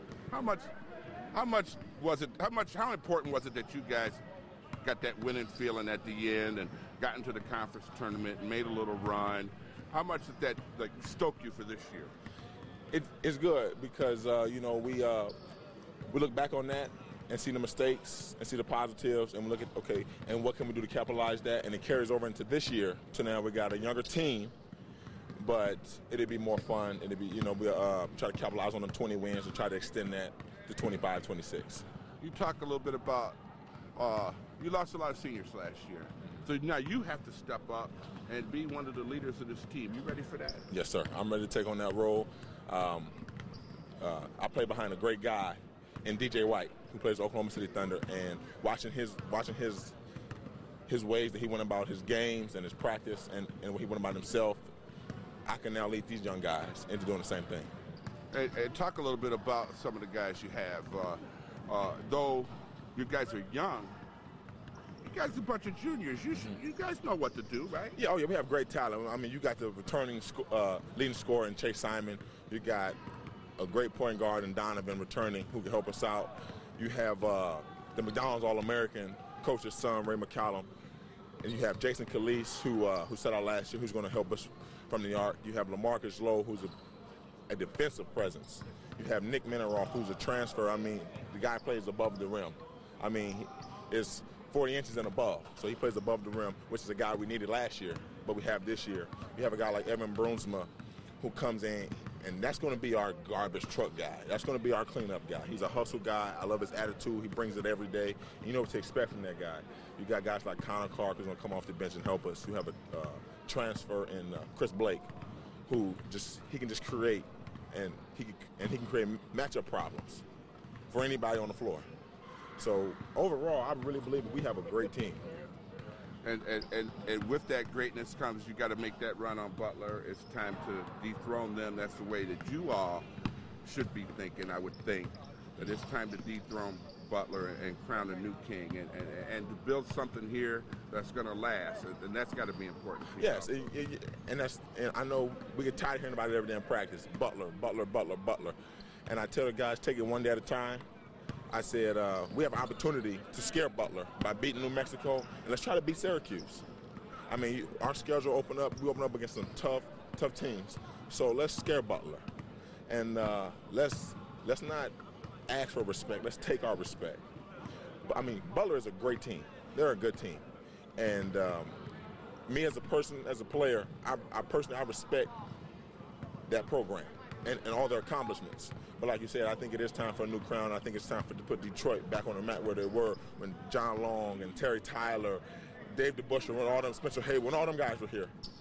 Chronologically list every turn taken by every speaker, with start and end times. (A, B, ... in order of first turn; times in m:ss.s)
0:00.3-0:00.7 A
0:01.3-0:04.2 A
0:04.8-0:12.1 A
0:12.9-0:15.3 B
0:16.1-0:24.5 B
0:25.4-0:31.8 B
0:32.2-0:33.4 A
0:34.0-0:40.7 A
0:40.7-0:43.2 B
0:44.0-0:49.9 B
0:50.9-0:54.6 B
0:55.4-0:57.7 B
0:58.3-1:04.0 A
1:05.0-1:08.0 A
1:08.0-1:13.0 B
1:13.6-1:20.7 B
1:21.4-1:26.7 B
1:27.5-1:40.7 B
1:41.2-1:55.0 B
1:55.7-2:00.2 B
2:00.9-2:01.8 B
2:02.6-2:05.2 B
2:06.2-2:13.0 A
2:13.6-2:23.5 A
2:23.2-2:30.8 B
2:31.5-2:36.6 B
2:37.3-2:42.2 B
2:42.9-2:44.9 B
2:45.5-2:47.2 B
2:48.0-2:50.4 B
2:51.0-2:51.8 B
2:52.5-2:55.3 B
2:56.5-3:08.3 B